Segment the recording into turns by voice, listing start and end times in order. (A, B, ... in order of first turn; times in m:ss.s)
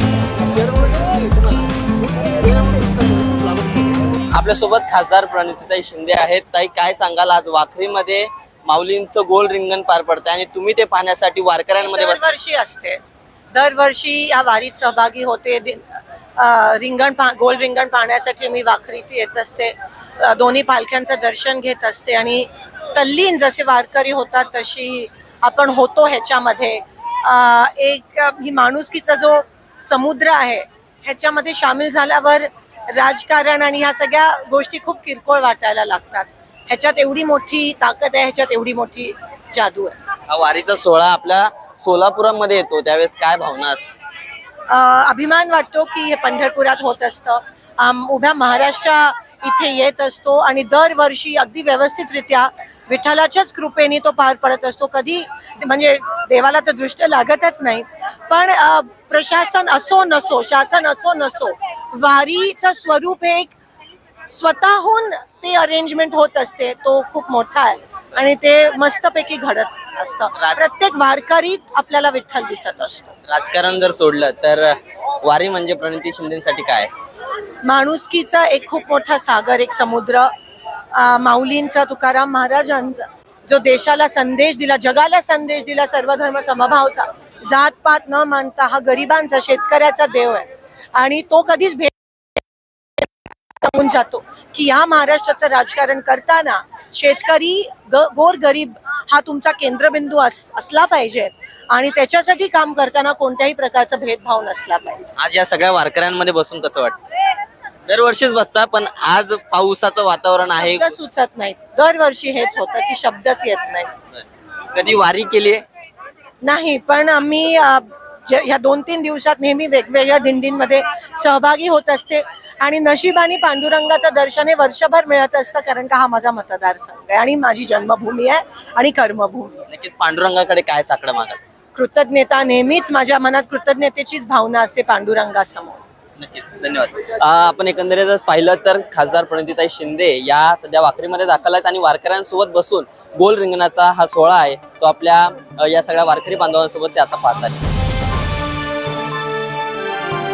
0:00.9-0:01.3 A
0:03.2-0:03.6 A
0:04.3-0:12.2 A
0:11.8-0:13.0 B
0:13.5-0:15.8 B
0:16.4-0:40.0 B
0:40.3-0:43.8 A
0:44.7-1:03.5 B
1:04.3-1:13.1 B
1:13.3-1:16.9 A
1:17.6-1:20.3 B
1:20.9-1:31.9 B
1:33.6-1:45.1 B
1:45.2-1:47.0 A
1:47.9-1:50.9 A
1:50.6-1:53.9 B
1:54.1-1:55.6 A
1:56.4-2:09.6 B
2:09.7-2:11.4 A
2:11.7-2:15.8 B
2:16.2-2:27.6 A